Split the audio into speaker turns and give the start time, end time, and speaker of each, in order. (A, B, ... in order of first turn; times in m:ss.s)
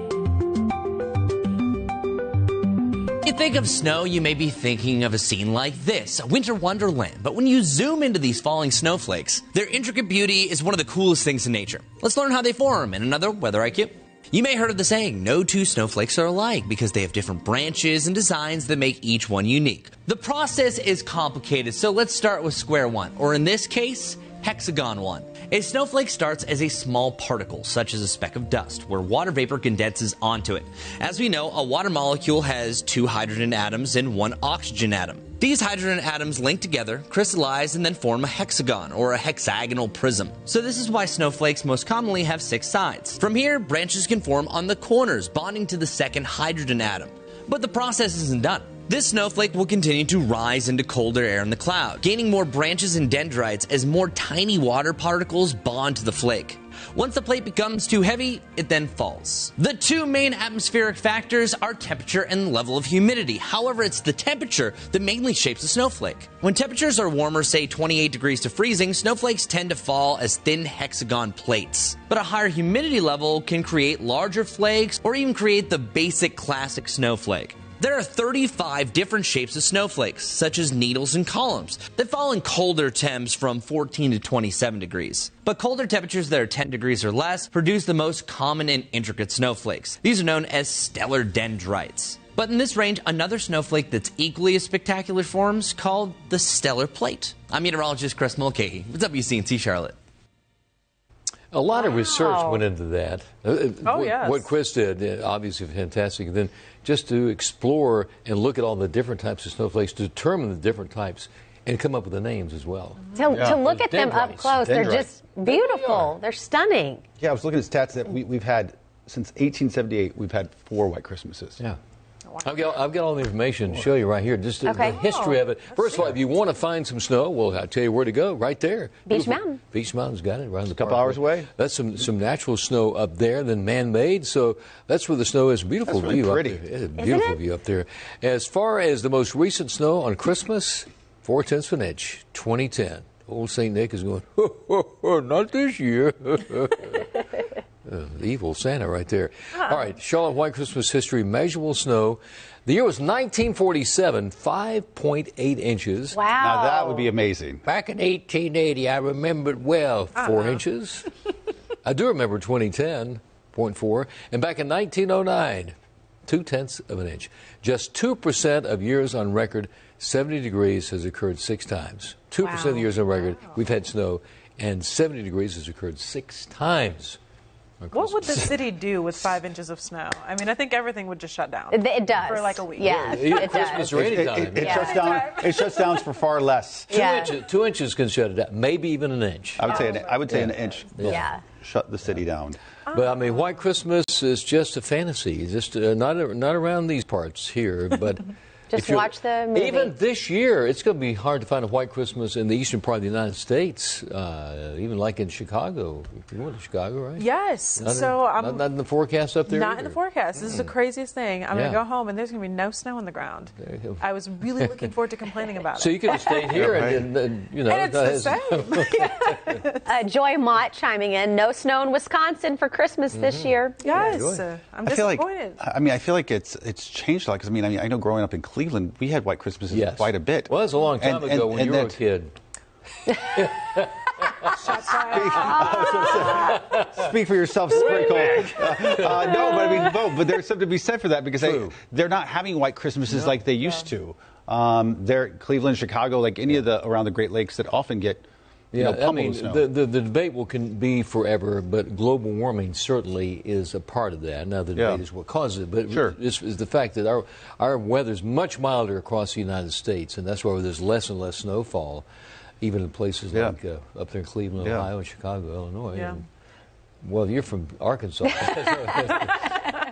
0:03.2-1:40.0 A
1:41.5-1:54.7 B
1:41.8-1:42.6 C
1:43.8-1:44.5 D
1:53.1-1:57.0 C
1:53.3-1:53.6 E
1:54.6-1:55.1 E
1:55.4-1:56.1 B
1:57.2-2:01.6 E
2:02.3-2:02.7 D
2:02.4-2:36.2 B
2:04.6-2:05.0 C
2:05.0-2:06.1 D
2:09.1-2:09.6 C
2:10.7-2:11.5 E
2:15.8-2:16.6 E
2:17.0-2:17.4 C
2:36.1-2:37.1 C
2:36.4-2:37.6 E
2:37.7-2:41.1 B
2:40.2-2:40.6 D
2:41.8-2:45.8 B
2:46.3-2:57.2 B
2:52.5-2:52.8 C
2:57.8-2:58.6 B
2:57.9-3:03.6 D
3:01.7-3:03.9 C
3:02.9-3:04.8 B
3:03.8-3:07.0 E
3:04.6-3:05.0 C
3:04.6-3:06.1 D
3:06.9-3:07.4 C
3:06.9-3:11.3 B
3:09.6-3:12.6 E
3:09.6-3:10.7 D
3:11.0-3:11.4 C
3:12.9-3:13.4 D
3:12.9-3:30.7 B
3:18.7-3:20.0 C
3:27.2-3:28.7 D
3:29.5-3:36.6 D
3:31.5-3:31.8 B
3:33.6-3:34.9 B
3:35.7-3:39.6 B
3:36.5-3:37.1 E
3:37.6-3:40.0 D
3:39.8-3:44.2 C
3:43.1-3:44.4 B
3:43.8-3:45.6 D
3:44.8-3:52.0 E
3:49.7-3:52.4 B
3:53.1-3:54.6 B
3:54.5-3:55.9 D
3:54.6-4:09.7 E
3:55.8-3:57.0 B
3:57.7-4:00.2 B
4:01.4-4:01.8 B
4:03.1-4:03.4 B
4:08.7-4:22.1 B
4:14.8-4:15.0 E
4:15.9-4:16.2 E
4:22.6-4:26.2 B
4:23.3-4:23.6 E
4:24.6-4:24.9 E
4:25.9-4:26.2 D
4:27.0-4:29.6 B